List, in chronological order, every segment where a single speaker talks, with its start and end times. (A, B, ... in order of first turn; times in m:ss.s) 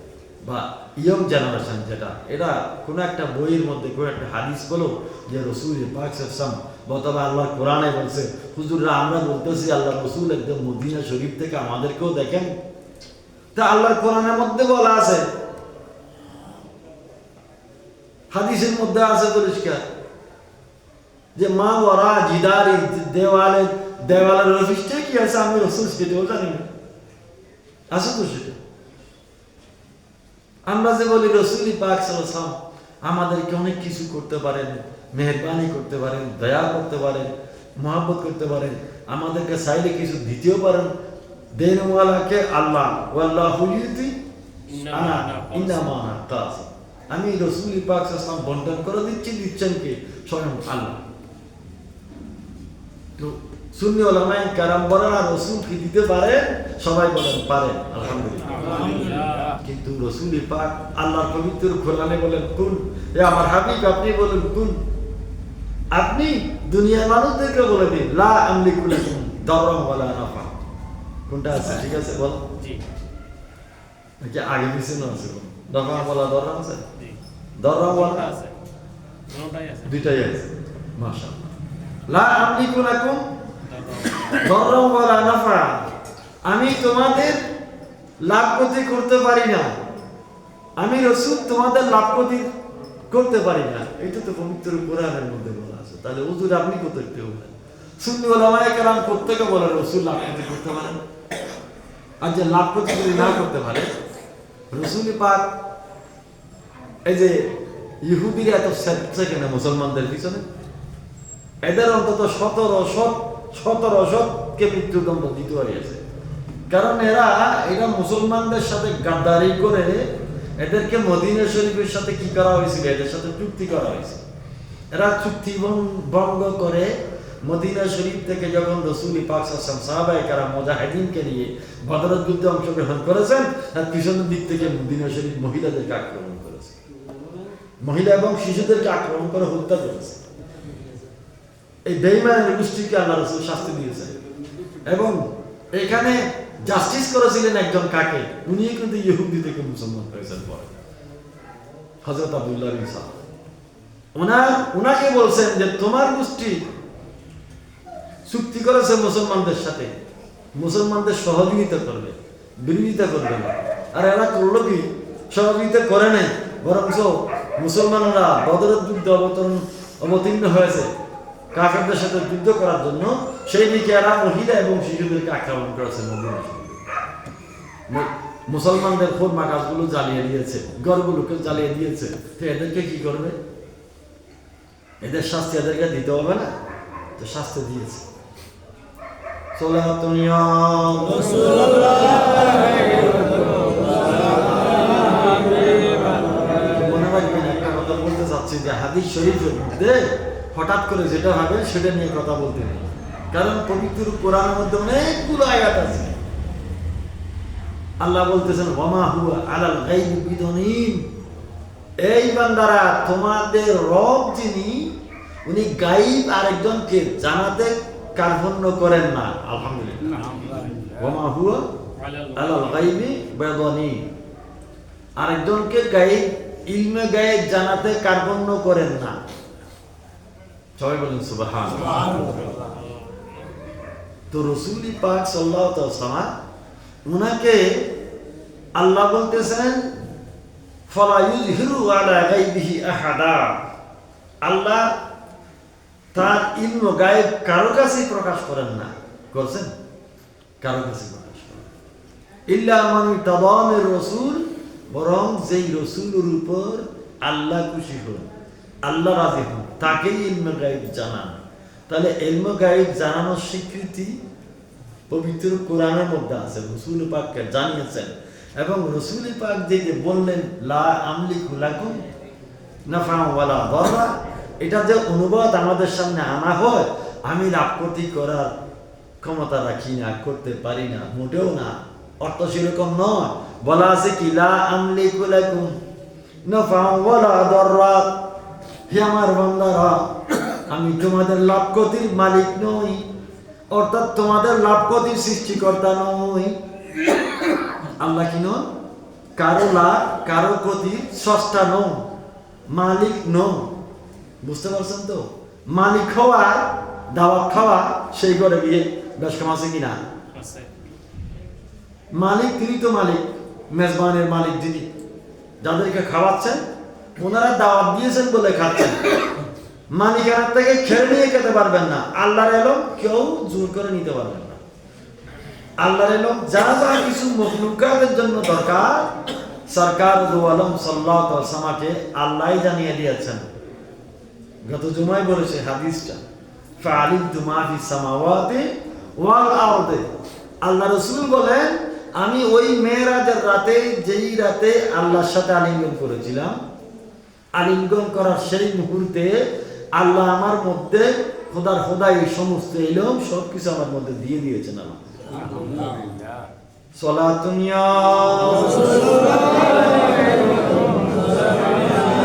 0:00.4-0:12.5 A
0:13.6-0:15.3 A
0:18.3-0:19.8 A
0:21.4-0:26.7 A
0:27.9-0:28.6 A
0:30.6-0:40.9 A
0:41.6-0:44.2 A
0:44.7-0:46.0 B
0:44.9-0:51.0 A
0:53.2-1:04.8 A
0:58.6-0:59.6 B
1:05.9-1:10.6 A
1:11.3-1:12.4 A
1:12.6-1:12.9 B
1:14.2-1:16.9 A
1:15.9-1:16.2 B
1:16.9-1:17.2 B
1:17.6-1:18.3 A
1:17.8-1:18.6 B
1:19.3-1:20.3 B
1:19.9-1:21.5 A
1:22.1-1:23.2 A
1:23.6-1:24.5 B
1:24.4-1:25.9 A
1:26.4-1:27.5 A
1:28.2-1:29.8 A
1:30.8-1:32.5 A
1:33.1-1:37.5 A
1:38.0-1:41.0 A
1:42.2-1:43.9 A
1:44.7-1:45.5 A
1:47.1-1:47.5 A
1:48.0-1:50.5 A
1:51.6-1:56.0 A
1:56.7-2:04.2 A
2:04.9-2:16.8 A
2:17.8-2:20.2 A
2:21.9-2:24.2 A
2:24.9-2:30.7 A
2:32.0-2:33.1 A
2:34.2-2:36.7 A
2:38.2-2:39.9 A
2:40.6-2:50.9 A
2:51.5-2:56.8 A
2:57.9-3:03.4 A
3:05.0-3:06.5 A
3:07.2-3:08.1 A
3:09.6-3:12.9 A
3:16.7-3:26.2 A
3:28.0-3:31.1 A
3:32.0-3:35.0 A
3:35.5-3:40.4 A
3:40.3-3:40.9 B
3:41.0-3:41.7 A
3:42.0-3:43.0 B
3:42.4-3:44.1 A
3:45.2-3:49.2 A
3:50.8-3:52.3 A
3:52.1-3:53.3 B
3:54.3-3:56.3 A
3:57.0-3:57.9 A
3:58.8-4:00.0 A
4:00.9-4:03.6 A
4:04.4-4:05.0 A
4:06.1-4:09.7 A
4:10.6-4:11.7 A
4:12.5-4:18.3 A
4:18.8-4:24.2 A
4:25.1-4:32.0 A
4:32.9-4:38.6 A
4:39.2-4:45.8 A
4:46.5-4:48.3 A
4:48.9-4:50.1 A
4:50.7-4:53.1 A
4:53.7-4:56.6 A
4:58.0-4:58.7 A
4:59.4-5:02.1 A
5:02.7-5:03.8 A
5:04.4-5:10.0 A
5:10.3-5:10.9 B
5:12.1-5:14.9 A
5:15.6-5:16.6 A
5:17.2-5:19.2 A
5:19.9-5:24.6 A
5:25.8-5:29.1 A
5:29.7-5:33.5 A
5:34.6-5:36.2 A
5:36.8-5:40.0 A
5:40.6-5:46.6 A
5:47.6-5:55.4 A
5:55.4-5:56.2 B
5:57.0-5:59.9 A